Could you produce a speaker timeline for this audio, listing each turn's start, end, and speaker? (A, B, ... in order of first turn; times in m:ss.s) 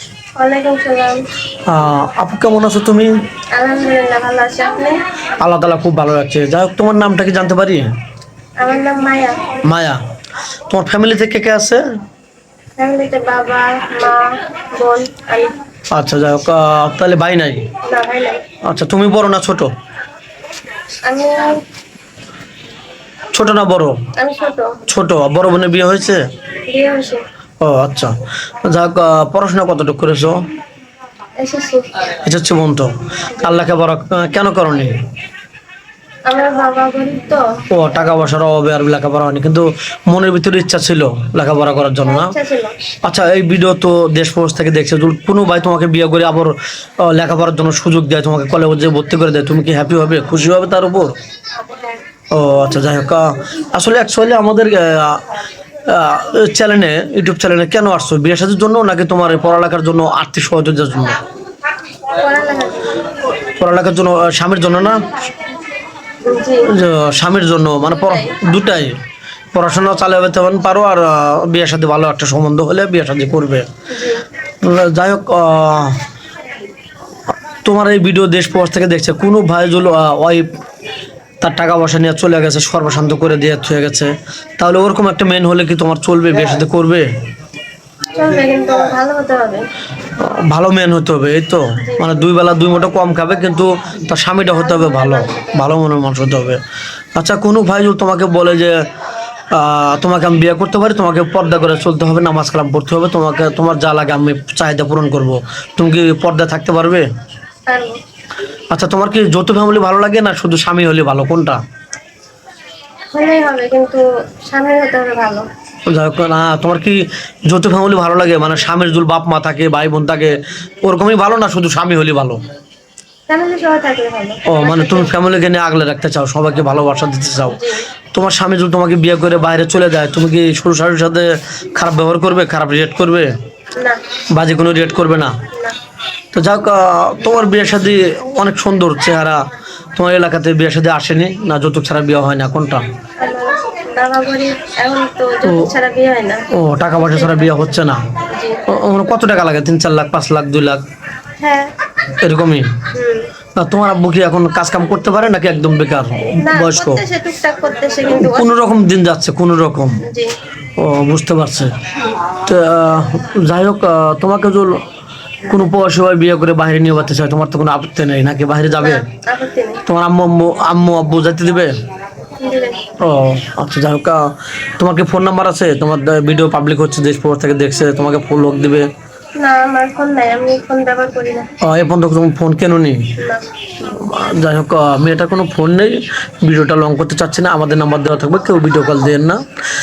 0:00.4-0:01.2 A
0:01.7-0:03.1 B
0:03.5-0:05.0 A
0:05.4-0:07.9 B
0:08.6-0:09.6 A
0:09.6-0:10.0 B
0:10.7-0:11.8 B
0:12.8-0:15.6 A
0:15.9-0:17.7 B
0:17.8-0:18.4 A
0:18.6-0:19.7 B
0:21.0-0:21.6 A
0:23.3-0:24.0 B
0:24.2-0:24.8 A
0:24.9-0:26.2 B
0:26.7-0:27.2 A
0:27.6-0:30.4 B
0:31.4-0:31.9 A
0:32.1-0:35.0 B
0:36.3-0:37.4 A
0:37.7-0:42.3 B
0:42.0-0:42.8 A
0:43.0-0:51.1 B
0:52.3-0:55.2 B
0:55.9-1:01.2 B
1:02.1-1:03.1 A
1:03.3-1:05.0 B
1:06.2-1:06.7 A
1:06.7-1:09.0 B
1:08.0-1:08.4 A
1:09.5-1:13.7 B
1:13.9-1:14.2 A
1:14.6-1:16.0 B
1:17.6-1:20.5 B
1:21.4-1:27.1 B
1:28.2-1:29.7 A
1:30.2-1:36.6 B
1:31.8-1:32.1 A
1:34.6-1:35.6 A
1:37.2-1:38.8 B
1:39.5-1:47.1 B
1:47.7-1:48.0 A
1:48.7-1:51.6 B
1:53.1-1:55.5 A
1:55.9-2:02.4 B
2:03.3-2:05.1 A
2:04.5-2:07.6 B
2:07.5-2:07.8 A
2:08.1-2:13.3 B
2:14.3-2:15.4 B
2:16.3-2:19.4 B
2:19.9-2:22.8 B
2:23.2-2:27.7 A
2:26.5-2:28.1 B
2:28.3-2:28.6 A
2:28.7-2:30.8 B
2:31.4-2:31.7 A
2:32.2-2:32.8 B
2:32.9-2:33.3 A
2:33.6-2:37.0 B
2:36.4-2:38.5 A
2:38.1-2:40.0 B
2:40.0-2:40.4 A
2:40.8-2:41.7 B
2:42.3-2:44.8 B
2:45.5-2:49.0 B
2:48.8-2:49.8 A
2:49.9-2:51.7 B
2:52.4-2:52.8 A
2:53.0-2:54.2 B
2:54.8-2:58.9 B
2:59.4-3:01.5 A
3:01.6-3:03.0 B
3:03.2-3:03.4 A
3:03.8-3:09.4 B